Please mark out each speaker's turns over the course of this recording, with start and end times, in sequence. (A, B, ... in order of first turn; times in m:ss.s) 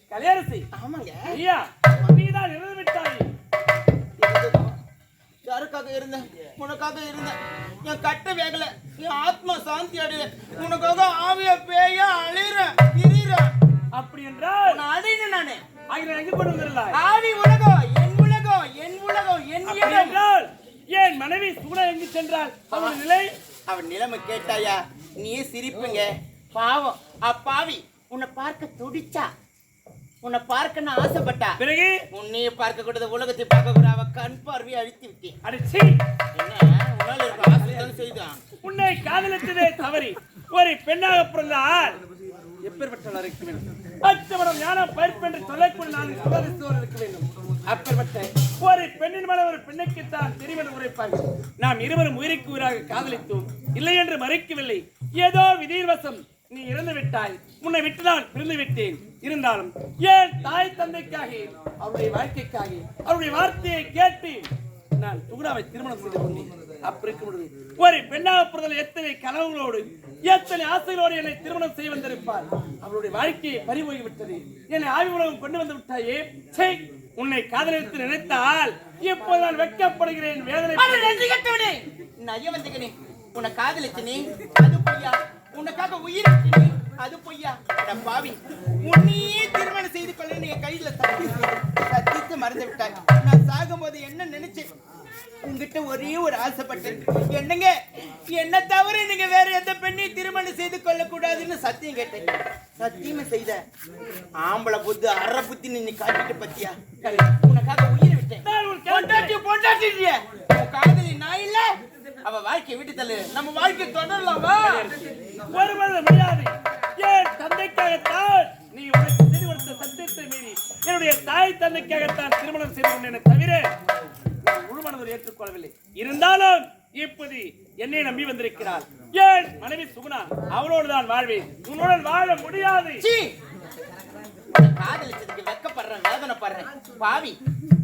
0:00.1-0:00.7 A
0:00.7-0:01.3 B
0:01.3-0:03.3 A
0:04.2-0:04.8 B
0:05.4-0:13.5 B
0:13.9-0:14.8 A
0:14.6-0:15.6 B
0:15.9-0:17.0 A
0:16.9-0:20.2 B
0:19.6-0:23.3 A
0:22.7-0:23.0 B
0:23.7-0:29.3 B
0:30.2-0:31.6 B
0:31.6-0:32.0 A
0:32.1-0:35.4 B
0:35.4-0:36.0 A
0:36.3-0:38.4 B
0:37.3-0:37.9 A
0:38.6-0:42.0 A
0:42.6-1:21.3 A
1:20.7-1:34.7 B
1:35.4-1:37.7 B
1:38.3-1:42.2 B
1:42.8-1:43.6 B
1:44.4-1:51.7 B
1:48.4-1:49.4 A
1:52.2-1:54.9 B
1:54.5-1:55.0 A
1:55.5-2:03.6 A
2:04.4-2:13.0 A
2:13.0-2:13.3 B
2:14.5-2:17.4 B